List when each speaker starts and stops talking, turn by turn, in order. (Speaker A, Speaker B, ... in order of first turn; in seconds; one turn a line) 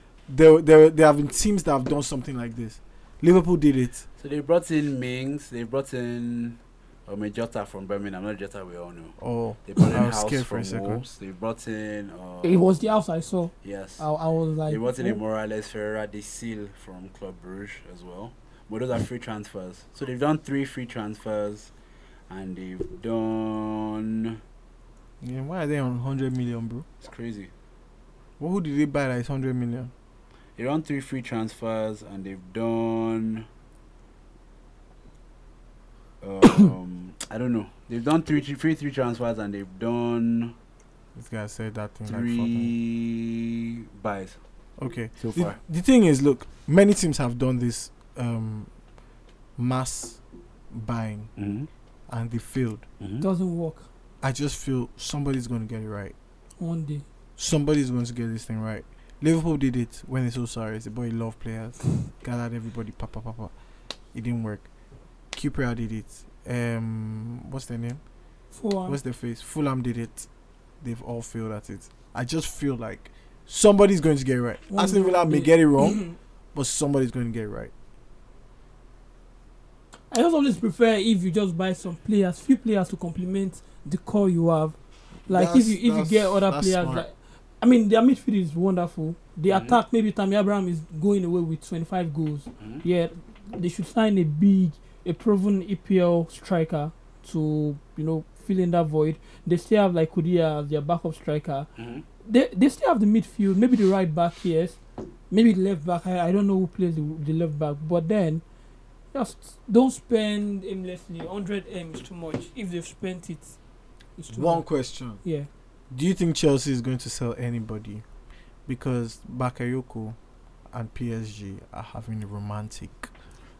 Speaker A: 0.3-4.0
Speaker B: 4.2-9.1
Speaker A: 9.2-11.1
Speaker B: 9.7-12.7
Speaker C: 12.4-15.2
Speaker B: 13.6-14.0
Speaker B: 14.7-21.7
Speaker B: 22.3-24.4
Speaker A: 25.2-26.9
Speaker B: 27.0-27.5
Speaker A: 28.4-29.9
Speaker B: 30.6-33.5
Speaker B: 36.2-40.5
Speaker A: 41.1-42.7
Speaker B: 42.1-44.4
Speaker A: 44.8-48.7
Speaker B: 45.2-45.6
Speaker A: 49.6-50.2
Speaker A: 50.7-51.3
Speaker B: 51.4-51.7
Speaker A: 52.1-52.8
Speaker C: 53.2-53.9
Speaker A: 54.2-56.1
Speaker C: 56.6-57.0
Speaker A: 57.4-63.5
Speaker A: 64.1-64.7
Speaker A: 65.3-68.0
Speaker C: 68.5-69.0
Speaker A: 68.9-70.3
Speaker A: 70.8-76.0
Speaker C: 74.7-76.2
Speaker A: 76.5-77.7
Speaker C: 80.1-84.8
Speaker A: 85.3-87.0
Speaker C: 85.3-101.7
Speaker B: 89.5-89.8
Speaker B: 101.8-102.0
Speaker C: 102.2-104.8
Speaker C: 105.3-108.4
Speaker C: 109.1-113.6
Speaker C: 114.2-114.6
Speaker A: 114.3-115.2
Speaker C: 115.2-115.5
Speaker A: 115.9-118.0
Speaker A: 118.7-120.2
Speaker A: 120.7-123.1